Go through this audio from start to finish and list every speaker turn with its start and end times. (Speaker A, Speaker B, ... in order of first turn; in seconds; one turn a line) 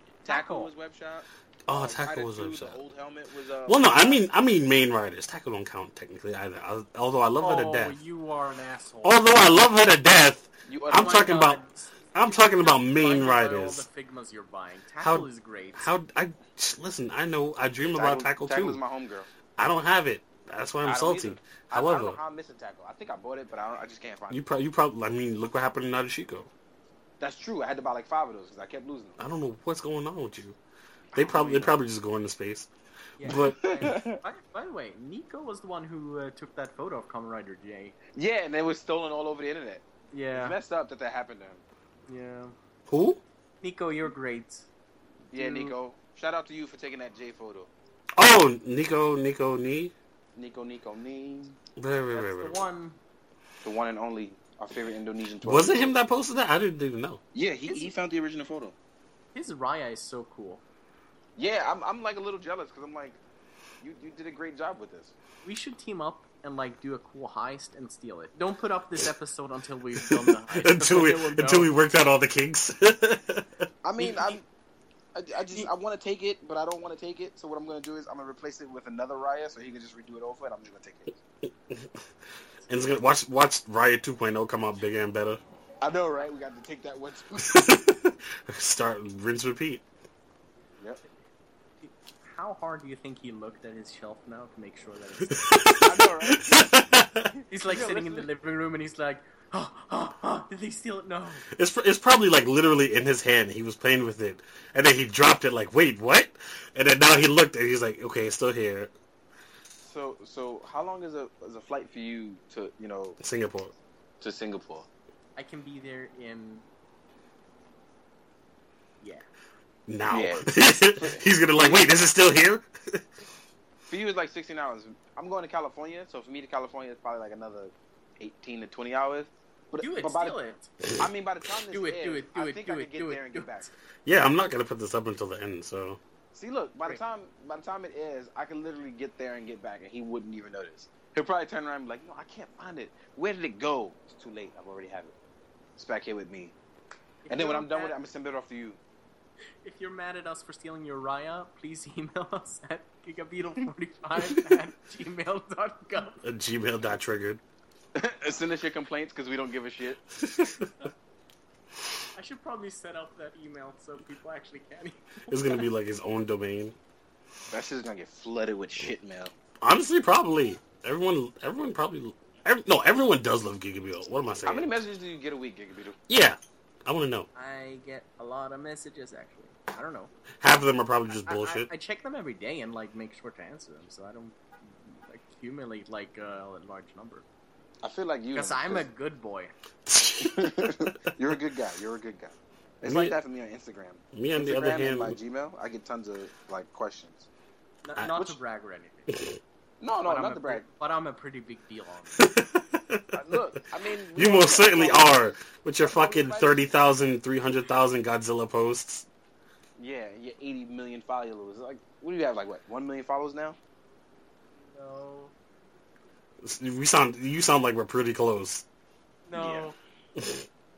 Speaker A: 0.2-0.7
Speaker B: 0.3-4.2
Speaker C: 1.7-2.8
Speaker C: 3.7-7.9
Speaker A: 7.4-9.2
Speaker C: 9.0-11.6
Speaker B: 10.7-11.3
Speaker A: 10.9-15.9
Speaker C: 12.1-13.9
Speaker C: 15.0-18.8
Speaker B: 18.0-19.3
Speaker C: 19.6-22.2
Speaker B: 20.8-24.4
Speaker C: 24.3-26.5
Speaker B: 27.2-29.2
Speaker C: 29.2-30.6
Speaker B: 31.1-31.7
Speaker C: 31.1-32.7
Speaker A: 33.2-38.0
Speaker C: 33.2-34.0
Speaker B: 33.4-34.2
Speaker B: 38.1-41.6
Speaker A: 40.1-40.6
Speaker A: 42.1-42.5
Speaker C: 42.9-43.2
Speaker A: 43.6-44.7
Speaker A: 45.3-45.8
Speaker B: 45.3-47.7
Speaker C: 48.2-49.9
Speaker B: 50.4-51.6
Speaker C: 51.8-52.6
Speaker A: 52.1-53.0
Speaker B: 53.6-56.0
Speaker C: 55.4-57.2
Speaker B: 57.3-58.8
Speaker A: 57.7-57.9
Speaker A: 59.3-60.6
Speaker B: 61.4-63.2
Speaker B: 63.8-65.1
Speaker A: 65.4-71.7
Speaker C: 70.0-73.7
Speaker B: 73.8-74.5
Speaker B: 75.1-81.2
Speaker C: 82.7-85.4
Speaker B: 85.8-87.8
Speaker C: 87.5-89.8
Speaker A: 91.8-95.8
Speaker C: 95.4-97.3
Speaker B: 95.8-96.7
Speaker A: 97.5-101.5
Speaker B: 97.6-98.3
Speaker C: 101.5-108.9
Speaker B: 109.8-113.2
Speaker C: 113.2-113.7
Speaker B: 114.2-114.9
Speaker A: 115.4-116.7
Speaker A: 119.0-119.3
Speaker C: 119.9-123.0
Speaker B: 120.1-121.9
Speaker B: 123.9-130.4
Speaker A: 129.8-130.7
Speaker B: 131.0-133.7
Speaker A: 131.7-133.7
Speaker C: 134.1-136.0
Speaker B: 136.3-145.1
Speaker B: 145.8-146.6
Speaker A: 147.2-147.9
Speaker B: 147.3-148.8
Speaker A: 149.6-156.2
Speaker C: 156.2-157.4
Speaker B: 157.9-160.0
Speaker C: 160.2-160.7
Speaker A: 162.2-165.6
Speaker C: 165.3-166.8
Speaker B: 167.5-169.3
Speaker C: 169.6-174.7
Speaker B: 174.4-176.0
Speaker C: 176.1-177.3
Speaker A: 177.3-180.1
Speaker C: 180.4-181.7
Speaker A: 181.2-187.2
Speaker B: 187.8-188.8
Speaker A: 188.3-189.5
Speaker C: 189.9-190.9
Speaker B: 190.2-197.3
Speaker C: 192.8-193.2
Speaker C: 194.1-195.2
Speaker A: 197.8-199.2
Speaker C: 199.1-199.4
Speaker B: 199.8-200.7
Speaker A: 200.1-202.3
Speaker C: 202.2-203.1
Speaker B: 203.1-206.7
Speaker C: 204.2-209.1
Speaker B: 209.8-213.6
Speaker A: 214.6-215.3
Speaker C: 216.4-218.7
Speaker A: 219.3-219.8
Speaker B: 219.3-219.7
Speaker C: 220.2-220.4